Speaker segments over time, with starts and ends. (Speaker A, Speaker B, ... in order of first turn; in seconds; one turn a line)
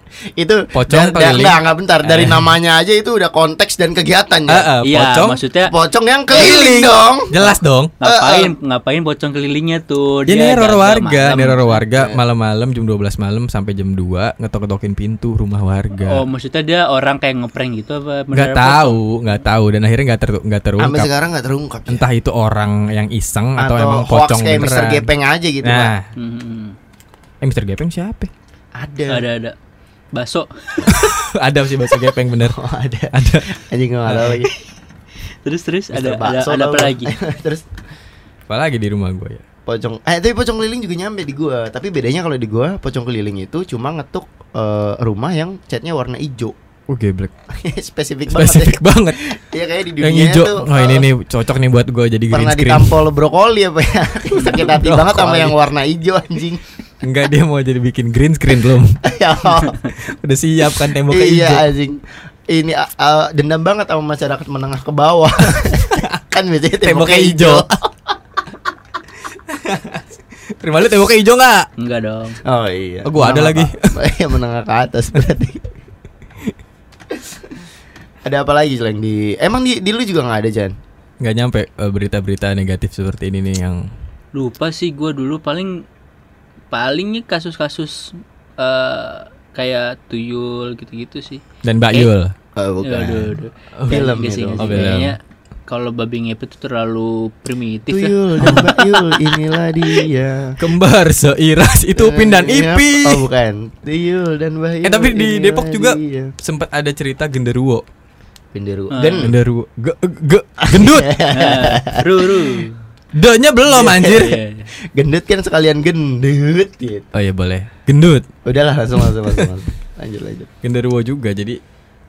Speaker A: 0.4-4.7
Speaker B: 0.7-2.5
Speaker B: 4.5-5.4
Speaker C: 4.8-5.7
Speaker A: 5.7-7.4
Speaker B: 6.3-8.0
Speaker C: 8.0-11.8
Speaker A: 8.0-8.6
Speaker B: 10.3-16.2
Speaker A: 11.9-12.2
Speaker C: 16.0-19.0
Speaker B: 18.3-21.1
Speaker A: 20.8-22.1
Speaker B: 21.9-25.1
Speaker A: 23.6-26.0
Speaker B: 25.6-26.1
Speaker C: 26.2-26.8
Speaker B: 27.4-28.3
Speaker A: 28.8-29.2
Speaker C: 29.1-29.6
Speaker C: 30.1-31.0
Speaker B: 30.9-32.6
Speaker A: 32.5-34.5
Speaker B: 33.1-33.5
Speaker B: 34.1-34.5
Speaker C: 35.5-37.1
Speaker A: 35.9-37.6
Speaker B: 38.5-39.4
Speaker A: 39.7-46.5
Speaker B: 46.9-47.3
Speaker A: 47.5-51.1
Speaker B: 48.3-49.2
Speaker B: 50.0-53.0
Speaker A: 52.3-56.6
Speaker C: 54.4-54.8
Speaker B: 54.5-55.6
Speaker B: 57.0-61.7
Speaker A: 59.0-59.8
Speaker A: 61.1-68.1
Speaker B: 65.7-66.1
Speaker B: 66.8-67.7
Speaker B: 69.5-70.1
Speaker B: 70.6-71.7
Speaker C: 71.8-72.4
Speaker A: 72.5-75.7
Speaker B: 73.0-74.0
Speaker A: 77.1-77.5
Speaker A: 78.2-80.8
Speaker B: 81.2-83.9
Speaker C: 84.3-85.8
Speaker C: 86.7-92.1
Speaker B: 91.6-92.3
Speaker A: 92.6-95.0
Speaker C: 92.8-99.0
Speaker B: 93.8-94.1
Speaker B: 94.6-95.2
Speaker A: 97.9-100.6
Speaker B: 98.4-98.7
Speaker B: 100.6-103.3
Speaker A: 102.0-106.3
Speaker B: 104.8-107.8
Speaker A: 108.5-109.4
Speaker C: 108.9-109.3
Speaker B: 109.2-111.1
Speaker A: 110.6-112.4
Speaker C: 111.3-112.8
Speaker B: 113.1-114.4
Speaker C: 113.7-114.7
Speaker A: 113.8-114.3
Speaker A: 114.9-117.1
Speaker B: 117.1-118.3
Speaker A: 118.5-120.5
Speaker B: 119.0-119.5
Speaker B: 120.6-121.6